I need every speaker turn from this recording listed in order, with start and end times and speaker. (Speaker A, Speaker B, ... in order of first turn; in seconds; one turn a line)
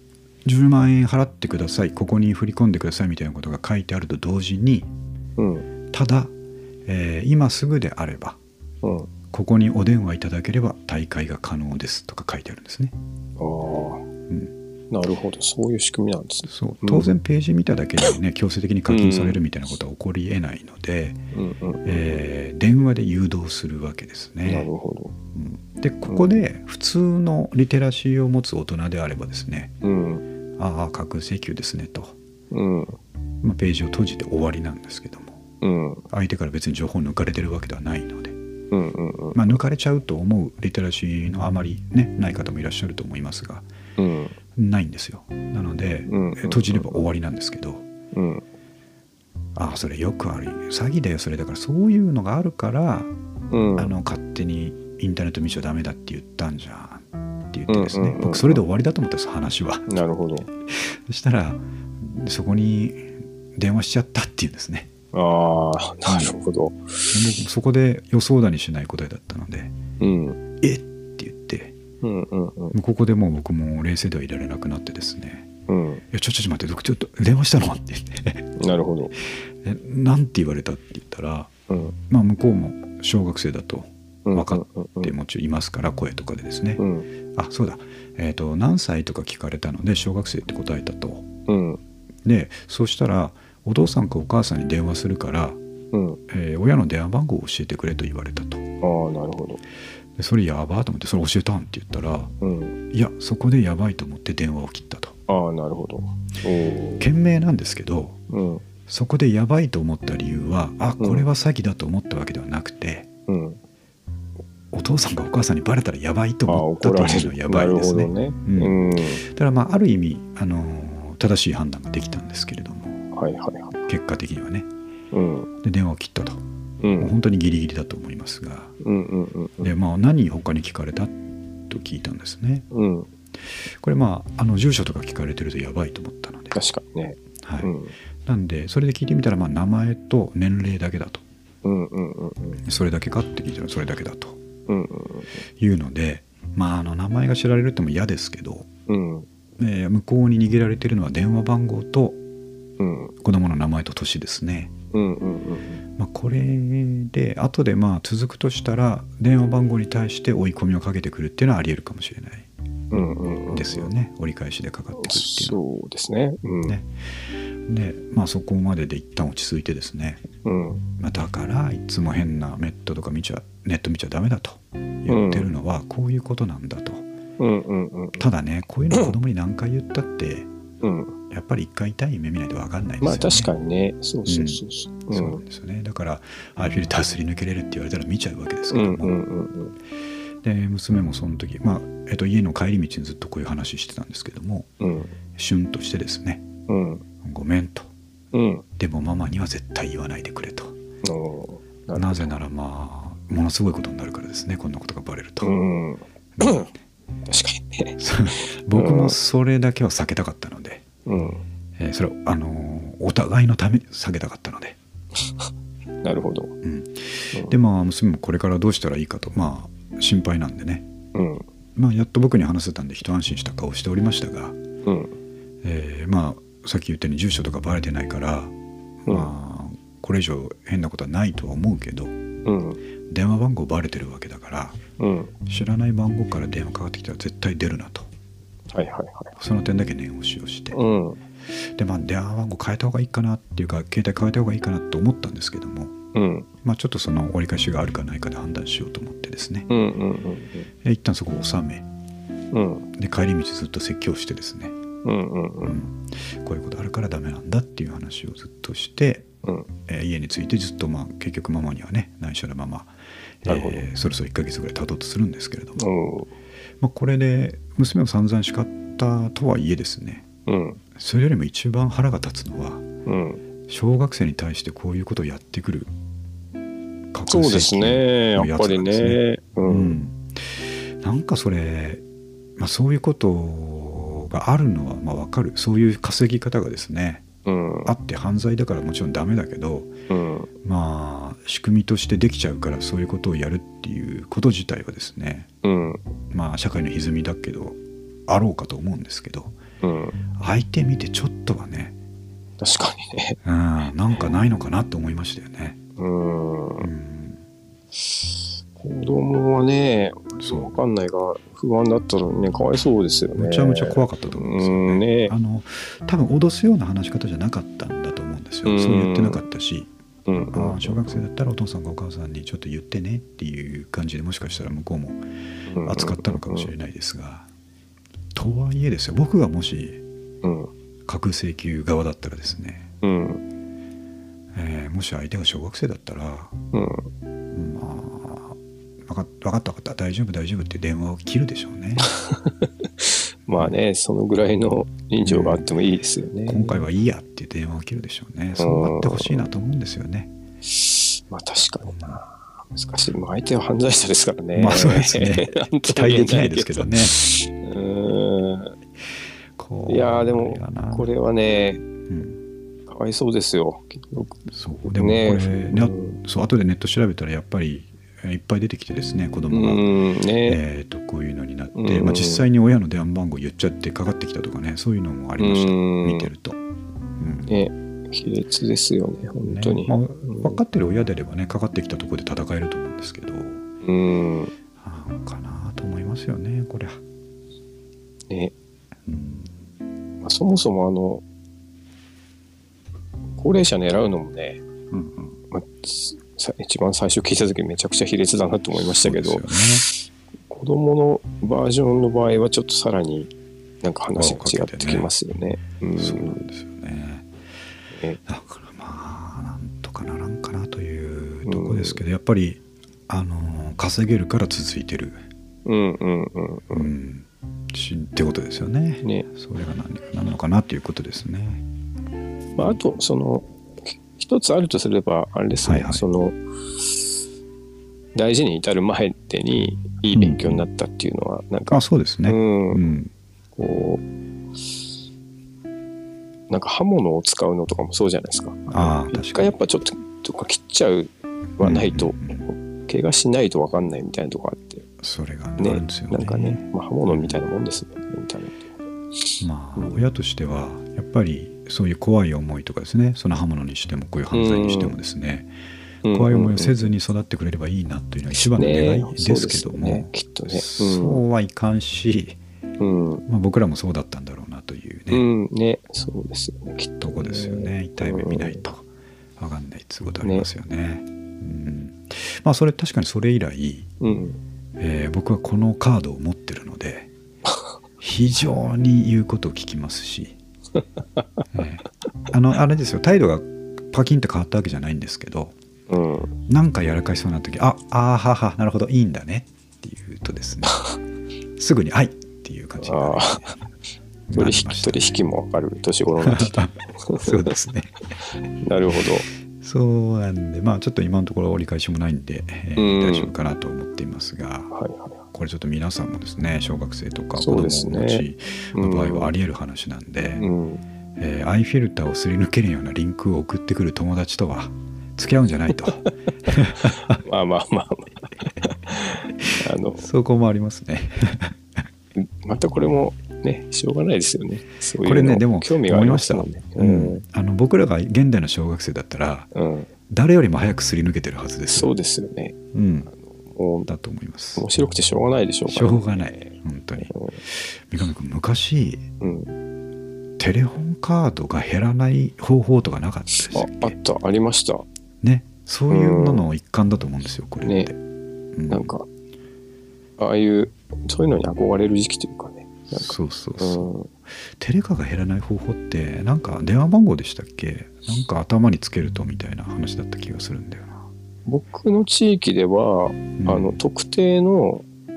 Speaker A: 0.5-4.9
Speaker B: 5.4-5.7
Speaker A: 5.9-6.3
Speaker A: 6.9-8.4
Speaker B: 8.8-9.1
Speaker A: 9.3-12.9
Speaker B: 13.4-14.1
Speaker B: 14.9-17.1
Speaker A: 16.5-21.2
Speaker B: 18.9-19.4
Speaker B: 21.3-22.2
Speaker A: 21.9-24.7
Speaker B: 24.4-25.1
Speaker A: 25.3-29.7
Speaker B: 26.1-26.4
Speaker B: 29.8-30.2
Speaker A: 30.6-32.2
Speaker B: 32.5-33.0
Speaker A: 33.4-35.4
Speaker B: 35.6-36.0
Speaker A: 36.1-38.4
Speaker B: 38.7-39.5
Speaker A: 39.4-43.6
Speaker B: 44.0-44.4
Speaker A: 44.6-47.9
Speaker B: 46.1-47.0
Speaker B: 48.1-48.5
Speaker A: 49.6-53.1
Speaker B: 53.5-54.0
Speaker A: 53.8-59.9
Speaker B: 57.7-58.6
Speaker B: 59.9-60.5
Speaker A: 60.7-64.9
Speaker B: 65.1-67.2
Speaker A: 67.1-69.8
Speaker B: 70.0-70.4
Speaker A: 70.6-71.8
Speaker B: 72.0-72.8
Speaker A: 72.7-75.5
Speaker B: 75.7-76.0
Speaker A: 76.1-78.5
Speaker B: 78.6-79.1
Speaker A: 79.2-81.5
Speaker B: 81.7-82.0
Speaker A: 82.1-86.8
Speaker B: 84.3-85.1
Speaker B: 86.8-87.1
Speaker A: 87.3-91.3
Speaker B: 91.5-91.8
Speaker A: 92.2-95.6
Speaker B: 95.9-96.2
Speaker A: 96.3-98.6
Speaker B: 98.8-99.6
Speaker A: 100.2-102.3
Speaker B: 102.4-102.8
Speaker A: 102.9-105.2
Speaker B: 105.3-107.0
Speaker A: 107.0-108.2
Speaker B: 108.3-108.7
Speaker A: 108.9-113.1
Speaker B: 111.0-111.3
Speaker B: 113.3-113.6
Speaker A: 114.7-123.1
Speaker B: 116.5-119.2
Speaker B: 123.1-123.8
Speaker A: 123.9-124.7
Speaker B: 125.1-125.5
Speaker A: 125.6-126.4
Speaker B: 126.8-127.1
Speaker A: 127.0-128.7
Speaker B: 128.8-129.7
Speaker A: 129.6-131.2
Speaker A: 131.7-132.7
Speaker B: 132.7-133.1
Speaker A: 133.7-136.6
Speaker B: 136.5-137.9
Speaker A: 137.4-137.7
Speaker A: 138.2-141.2
Speaker B: 141.6-142.6
Speaker A: 142.6-144.4
Speaker B: 144.7-145.4
Speaker A: 145.6-148.7
Speaker B: 148.9-149.3
Speaker A: 149.6-152.2
Speaker B: 152.8-153.1
Speaker A: 153.2-154.7
Speaker B: 154.9-155.8
Speaker A: 156.0-162.5
Speaker B: 162.9-163.9
Speaker A: 163.5-165.6
Speaker B: 164.9-166.8
Speaker A: 166.7-166.9
Speaker A: 167.7-170.2
Speaker B: 170.4-170.8
Speaker A: 171.0-177.1
Speaker B: 175.1-175.5
Speaker B: 177.4-178.3
Speaker A: 178.2-180.5
Speaker B: 180.8-181.2
Speaker A: 181.3-183.5
Speaker B: 183.0-185.4
Speaker A: 184.3-189.1
Speaker B: 188.7-189.8
Speaker A: 190.4-194.7
Speaker B: 194.8-195.1
Speaker A: 195.4-196.4
Speaker B: 196.7-197.0
Speaker A: 197.2-197.9
Speaker B: 198.3-198.7
Speaker A: 198.8-200.8
Speaker B: 201.0-202.3
Speaker A: 201.9-205.5
Speaker B: 205.4-206.7
Speaker B: 207.2-209.2
Speaker A: 208.0-210.8
Speaker B: 211.1-211.4
Speaker A: 211.8-214.8
Speaker B: 215.2-215.5
Speaker B: 216.0-216.6
Speaker A: 216.6-220.9
Speaker B: 221.1-221.5
Speaker A: 221.8-224.6
Speaker B: 224.8-225.2
Speaker A: 225.6-232.2
Speaker B: 232.4-232.8
Speaker A: 233.1-234.8
Speaker B: 235.0-235.3
Speaker A: 235.5-238.1
Speaker B: 238.7-239.4
Speaker A: 239.4-240.8
Speaker B: 240.7-241.2
Speaker A: 241.6-245.9
Speaker B: 246.1-246.5
Speaker A: 246.6-249.7
Speaker B: 249.7-250.7
Speaker A: 250.8-251.9
Speaker B: 252.5-252.9
Speaker A: 252.9-254.8
Speaker B: 255.0-255.8
Speaker A: 255.7-259.3
Speaker B: 259.4-259.7
Speaker A: 259.9-265.9
Speaker B: 263.5-263.9
Speaker B: 265.8-266.3
Speaker A: 266.8-270.3
Speaker B: 270.5-270.8
Speaker A: 270.9-272.9
Speaker B: 273.1-273.4
Speaker A: 273.7-275.9
Speaker A: 277.1-282.0
Speaker B: 277.3-280.0
Speaker A: 282.6-287.2
Speaker B: 287.5-287.9
Speaker A: 287.9-289.9
Speaker B: 290.1-290.5
Speaker A: 290.6-295.5
Speaker B: 295.6-296.0
Speaker A: 296.3-299.6
Speaker B: 299.8-300.2
Speaker A: 300.4-301.9
Speaker B: 302.6-303.4
Speaker A: 303.4-305.8
Speaker B: 306.0-306.9
Speaker A: 306.8-307.4
Speaker B: 308.0-315.3
Speaker A: 310.4-310.8
Speaker A: 313.4-319.9
Speaker B: 318.6-319.4
Speaker B: 320.3-321.2
Speaker A: 320.5-325.2
Speaker B: 325.7-326.7
Speaker A: 325.8-327.5
Speaker A: 328.3-330.0
Speaker B: 330.4-330.7
Speaker A: 331.1-332.9
Speaker B: 333.0-333.4
Speaker A: 334.5-336.5
Speaker B: 336.7-337.1
Speaker A: 337.5-342.1
Speaker B: 342.0-346.9
Speaker A: 345.2-345.7
Speaker A: 346.5-350.3
Speaker B: 348.6-349.5
Speaker B: 350.7-358.8
Speaker A: 351.9-352.2
Speaker A: 354.6-357.2
Speaker A: 359.6-361.1
Speaker B: 359.9-361.9
Speaker A: 362.1-362.4
Speaker B: 362.9-366.2
Speaker A: 364.5-369.9
Speaker B: 369.5-370.6
Speaker A: 370.4-376.6
Speaker B: 371.8-372.4
Speaker B: 375.4-376.3
Speaker A: 377.2-377.5
Speaker B: 377.5-380.6
Speaker A: 379.4-383.6
Speaker B: 383.8-384.5
Speaker A: 384.8-387.0
Speaker A: 389.1-389.5
Speaker B: 390.2-391.2
Speaker B: 393.4-394.6
Speaker A: 394.9-395.4
Speaker B: 395.5-406.4
Speaker A: 398.7-399.9
Speaker A: 404.1-405.1
Speaker A: 406.0-407.3
Speaker B: 407.9-408.2
Speaker A: 408.3-415.2
Speaker B: 411.5-412.0
Speaker B: 415.6-416.9
Speaker A: 416.7-421.6
Speaker B: 419.0-419.3
Speaker B: 422.6-427.1
Speaker A: 425.6-426.1
Speaker B: 428.1-432.9
Speaker A: 430.1-430.7
Speaker A: 431.7-433.1
Speaker B: 433.6-434.0
Speaker B: 436.5-444.9
Speaker A: 438.7-439.6
Speaker A: 441.6-442.4
Speaker A: 445.0-447.4
Speaker B: 445.6-450.0
Speaker A: 449.4-455.5
Speaker B: 454.3-455.0
Speaker B: 456.1-456.9
Speaker A: 456.1-462.4
Speaker B: 458.4-461.2
Speaker B: 462.8-463.2
Speaker A: 463.3-465.3
Speaker B: 465.1-468.6
Speaker A: 467.0-468.9
Speaker A: 469.4-473.9
Speaker B: 474.0-474.4
Speaker A: 474.8-477.1
Speaker A: 478.0-480.4
Speaker B: 481.2-481.4
Speaker A: 481.5-485.5
Speaker B: 485.9-486.3
Speaker A: 486.5-490.8
Speaker B: 490.7-491.0
Speaker A: 491.6-493.5
Speaker B: 492.8-493.6
Speaker A: 494.3-495.2
Speaker B: 494.4-497.5
Speaker A: 496.2-498.0
Speaker B: 498.6-499.3
Speaker A: 499.6-504.7
Speaker B: 502.8-503.3
Speaker B: 504.7-505.2
Speaker A: 505.3-510.5
Speaker B: 507.4-509.3
Speaker B: 510.4-510.8
Speaker A: 511.2-517.2
Speaker B: 516.7-520.1
Speaker A: 520.0-521.8
Speaker B: 522.2-527.2
Speaker A: 525.0-529.5
Speaker B: 529.5-529.9
Speaker A: 530.1-531.9
Speaker B: 531.7-532.6
Speaker A: 532.7-533.1
Speaker B: 533.1-533.9
Speaker A: 533.9-534.7
Speaker B: 534.6-537.4
Speaker A: 535.7-539.1
Speaker B: 539.2-539.5
Speaker A: 540.4-544.0
Speaker B: 543.3-544.9
Speaker A: 545.2-548.0
Speaker B: 545.9-546.4
Speaker B: 547.6-547.9
Speaker A: 548.5-548.9
Speaker B: 548.7-549.1
Speaker B: 550.2-554.1
Speaker A: 552.9-553.9
Speaker A: 554.4-561.1
Speaker B: 561.5-564.9
Speaker A: 563.4-563.8